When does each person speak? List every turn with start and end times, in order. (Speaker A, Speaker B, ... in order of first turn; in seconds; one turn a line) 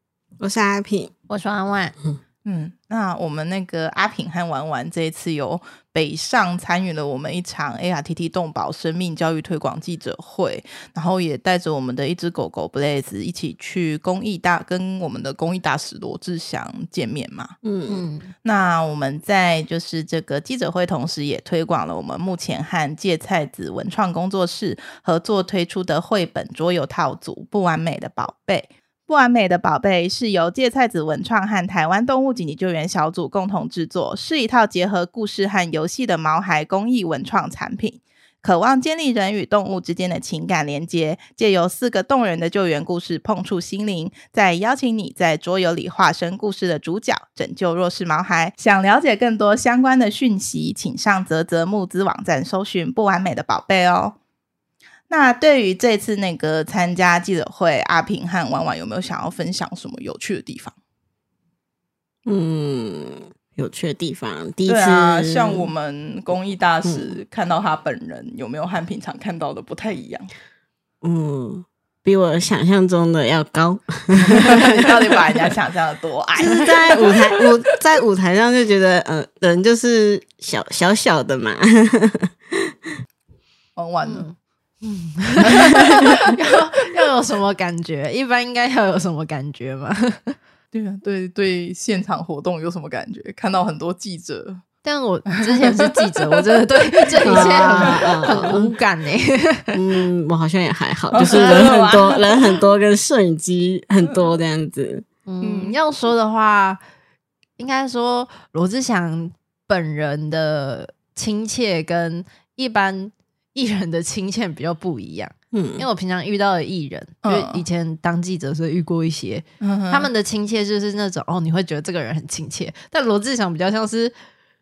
Speaker A: 0.4-1.1
Speaker B: 1.3-1.9
Speaker C: 2.4-17.6
Speaker A: 17.6-18.0
Speaker B: 17.9-18.3
Speaker C: 18.4-54.2
Speaker C: 55.1-60.8
Speaker A: 62.2-65.7
Speaker C: 64.7-70.3
Speaker A: 66.8-67.1
Speaker A: 71.0-75.0
Speaker C: 74.3-77.5
Speaker A: 76.4-82.7
Speaker C: 83.8-84.2
Speaker B: 84.0-90.4
Speaker C: 85.5-86.1
Speaker C: 90.7-94.6
Speaker B: 94.8-99.8
Speaker C: 95.4-98.5
Speaker A: 97.2-98.7
Speaker A: 99.7-105.0
Speaker C: 101.1-102.6
Speaker B: 101.3-101.6
Speaker B: 105.2-106.8
Speaker C: 105.4-105.8
Speaker B: 107.6-124.1
Speaker A: 115.5-115.8
Speaker C: 117.2-117.6
Speaker C: 119.6-120.1